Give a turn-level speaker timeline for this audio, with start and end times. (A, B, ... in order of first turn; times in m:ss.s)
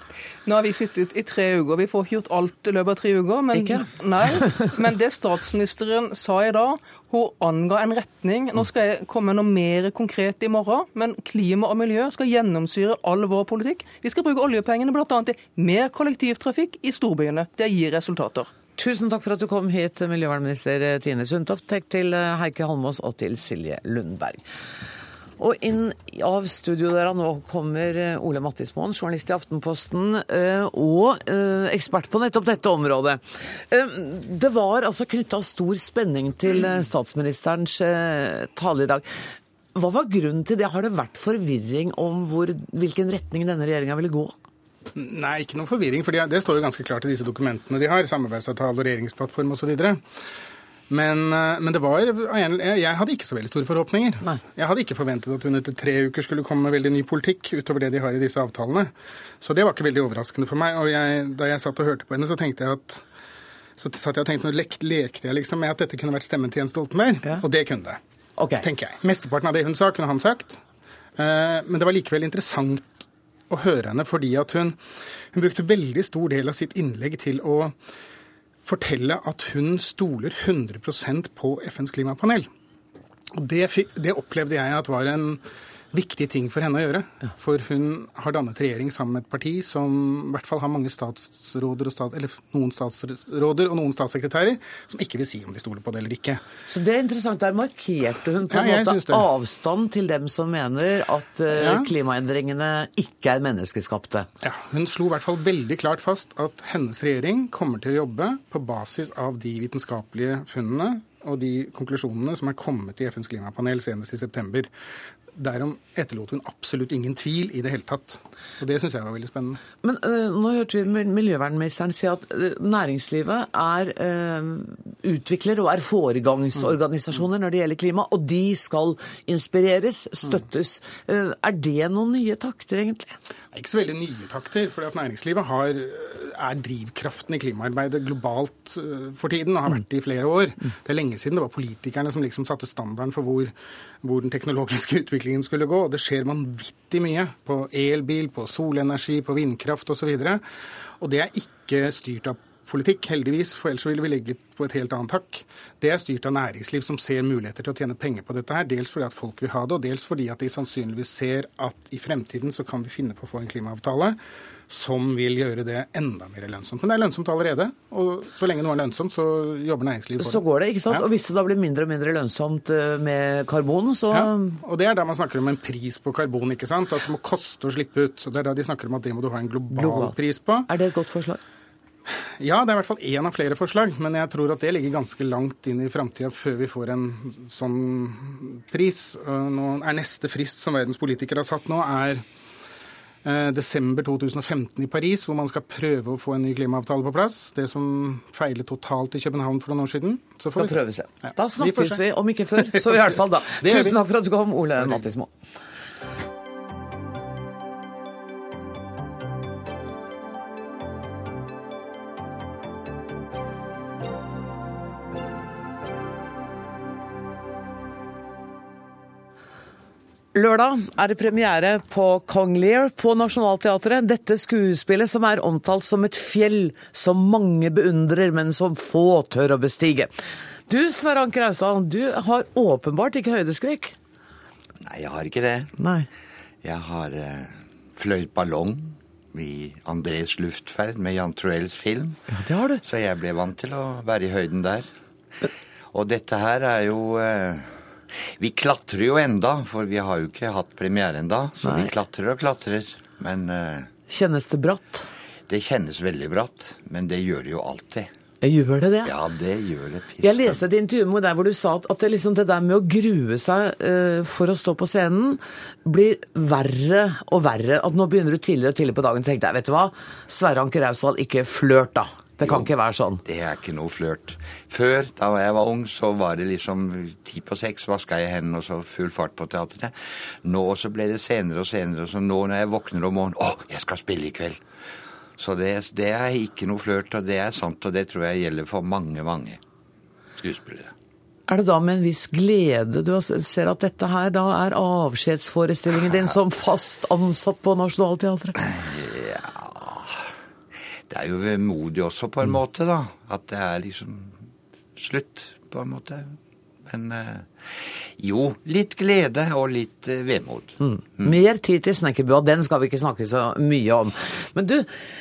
0:00.4-0:18.5 A
0:03.5-0:03.9 B
0:18.8-0:24.4 B
0:25.4-0:39.1 B
0:39.8-0:44.4 B
0:45.0-0:50.0 C
0:50.9-1:03.0 C
1:03.8-1:08.0 C
1:08.4-1:08.7 B
1:08.6-1:10.6 C
1:11.2-1:14.8 C
1:15.3-1:17.8 C
1:18.7-1:22.5 C
1:23.4-1:25.4 C
1:25.9-1:36.4 C
1:36.7-1:44.3 B
1:38.5-1:39.3 C
1:41.5-1:41.9 C
1:44.4-1:54.7 C
1:55.3-1:59.6 C
1:59.8-2:13.2 B
2:13.5-2:30.4 C
2:31.0-2:44.2 C
2:44.7-2:51.0 C
2:50.2-2:54.6 B
2:54.1-3:00.7 C
2:59.7-3:00.2 B
3:00.7-3:01.4 B
3:02.4-3:12.2 C
3:13.2-3:22.0 C
3:20.5-3:25.3 B
3:22.7-3:23.0 C
3:23.6-3:23.9 C
3:40.3-3:50.1 B
3:50.7-3:54.0 B
3:54.8-3:55.8 D
3:55.8-3:56.1 B
3:56.6-4:02.2 D
4:02.3-4:02.8 B
4:02.8-4:04.9 D
4:05.9-4:07.8 D
4:08.4-4:13.9 D
4:11.6-4:11.9 B
4:14.1-4:15.1 B
4:15.5-4:18.1 D
4:18.4-4:19.2 B
4:19.0-4:20.6 D
4:20.2-4:33.2 B
4:32.4-4:32.7 D
4:33.2-4:44.6 D
4:45.4-4:49.6 D
4:50.4-4:50.9 D
4:51.5-4:58.6 B
4:58.7-5:00.2 D
5:01.1-5:04.4 D
5:05.0-5:11.3 D
5:10.8-5:15.0 B